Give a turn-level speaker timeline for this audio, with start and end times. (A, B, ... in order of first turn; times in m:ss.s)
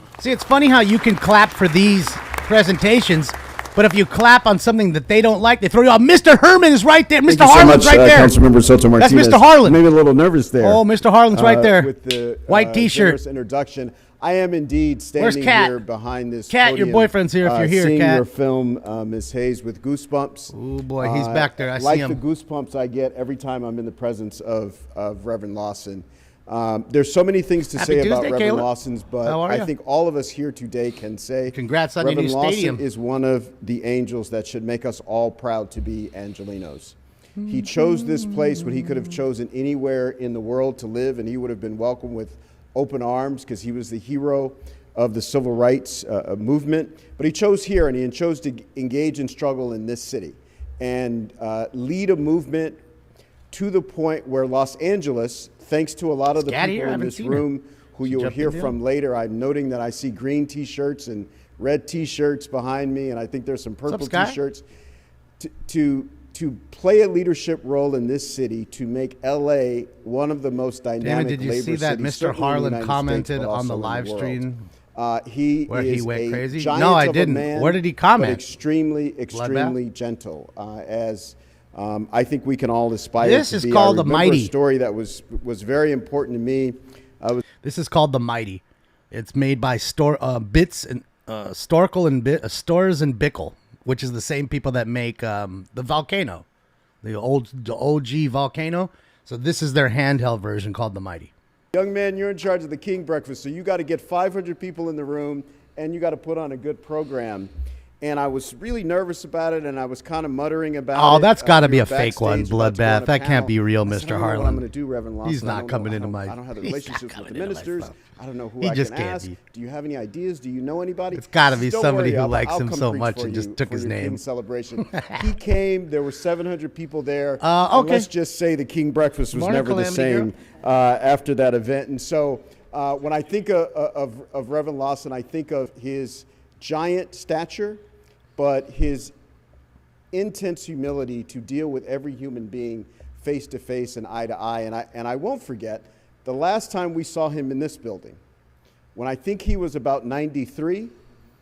0:00.2-0:08.3 A
0:07.3-0:52.8 B
0:09.0-0:09.8 A
0:10.6-0:11.9 A
0:12.5-0:13.2 A
0:15.2-0:15.8 A
0:16.5-0:18.2 A
0:20.5-0:22.2 A
0:27.8-0:28.7 A
0:29.2-0:29.7 A
0:31.5-0:32.8 A
0:37.4-0:39.2 A
0:53.5-1:04.6 B
0:56.4-0:57.5 A
0:58.0-0:58.8 A
1:03.9-1:04.4 A
1:05.4-1:14.4 B
1:11.0-1:14.6 A
1:15.0-1:27.4 B
1:15.7-1:18.4 A
1:19.3-1:19.8 A
1:23.2-1:24.5 A
1:27.6-1:36.4 A
1:37.0-1:41.3 A
1:41.7-2:17.8 B
1:51.0-1:54.6 A
1:55.2-1:57.9 A
1:58.6-1:59.3 A
2:01.1-2:04.2 A
2:04.9-2:05.2 A
2:07.4-2:08.1 A
2:09.3-2:10.3 A
2:18.4-2:19.1 B
2:20.1-2:28.2 B
2:29.0-2:30.9 B